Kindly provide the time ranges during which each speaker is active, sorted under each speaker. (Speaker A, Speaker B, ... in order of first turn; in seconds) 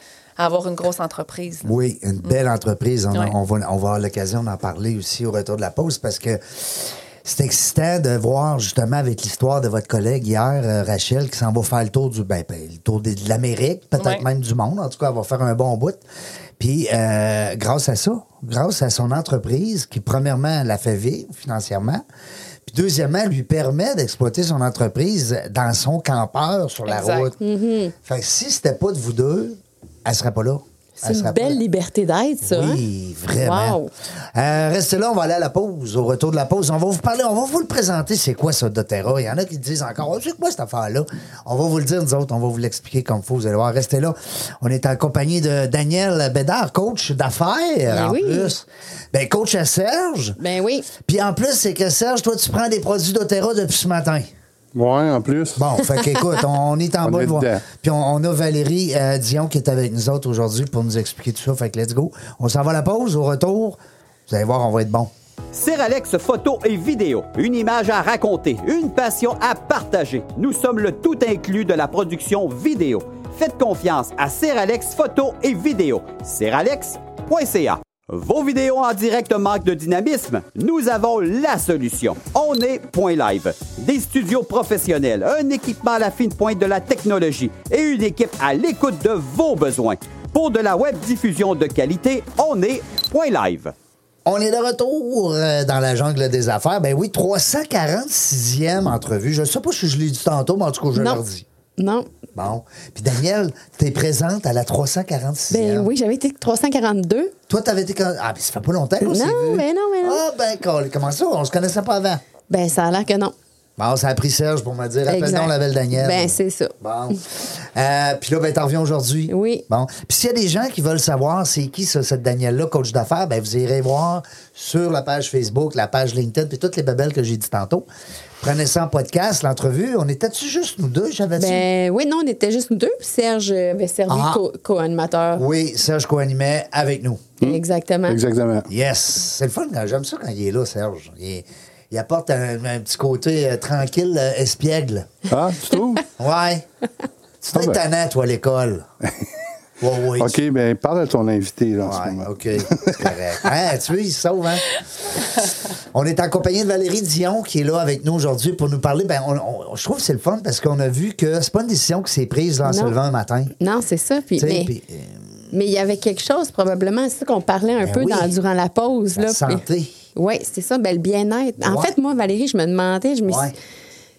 Speaker A: 0.4-2.4, 14.0-14.3, 26.9-27.3
Speaker B: 1.6-16.0, 16.6-22.0, 22.7-27.4, 28.1-31.6, 32.4-33.8, 34.3-50.4, 51.0-54.3, 55.6-65.1, 94.3-101.5, 102.3-105.9, 107.5-112.2, 113.8-127.9, 128.4-131.7, 134.1-134.4, 135.3-137.3, 138.7-145.1, 146.2-146.7, 147.4-148.9, 149.8-150.4, 151.8-154.7, 155.9-163.5, 164.4-165.2, 167.8-168.3, 169.2-169.9, 171.6-171.9, 173.2-173.6
Speaker C: 27.4-27.9, 31.0-32.8, 33.4-33.9, 47.9-48.5, 50.4-50.9, 100.9-101.2, 101.8-102.1, 105.5-107.3, 109.0-110.2, 112.5-113.3, 115.1-116.8, 119.3-119.7, 131.4-135.4, 137.4-138.2, 162.7-163.0, 163.6-164.7, 165.5-169.6, 170.2-173.5
Speaker D: 54.8-55.6, 57.0-57.6, 137.4-138.7, 145.3-146.0, 147.5-147.8, 150.2-153.0
Speaker E: 65.5-93.7